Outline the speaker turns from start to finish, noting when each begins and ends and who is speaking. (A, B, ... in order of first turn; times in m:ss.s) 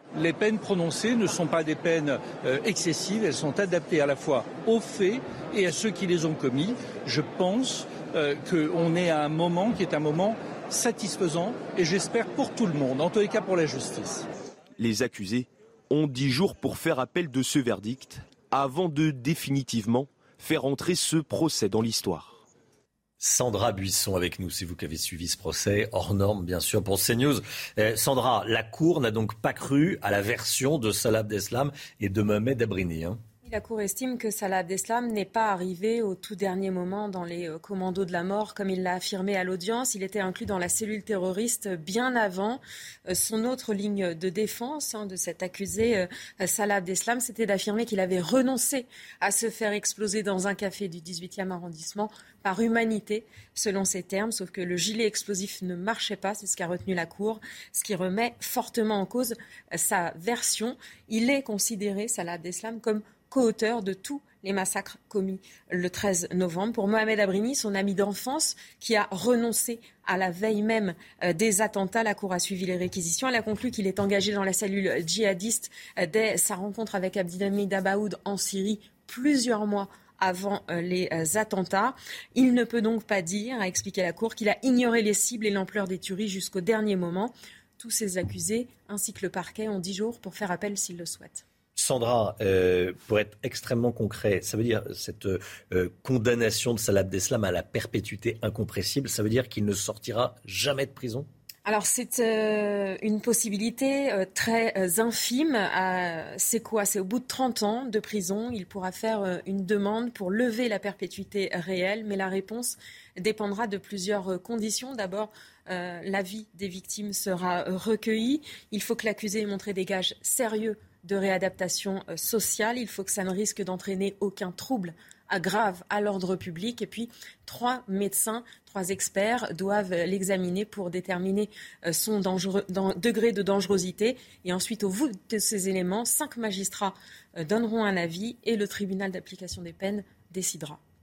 0:00.1-0:14.2 A
0:14.8-0:22.4 B
0:23.2-0:33.2 C
0:33.4-1:31.4 D
1:31.8-1:41.3 C
1:41.6-2:20.8 D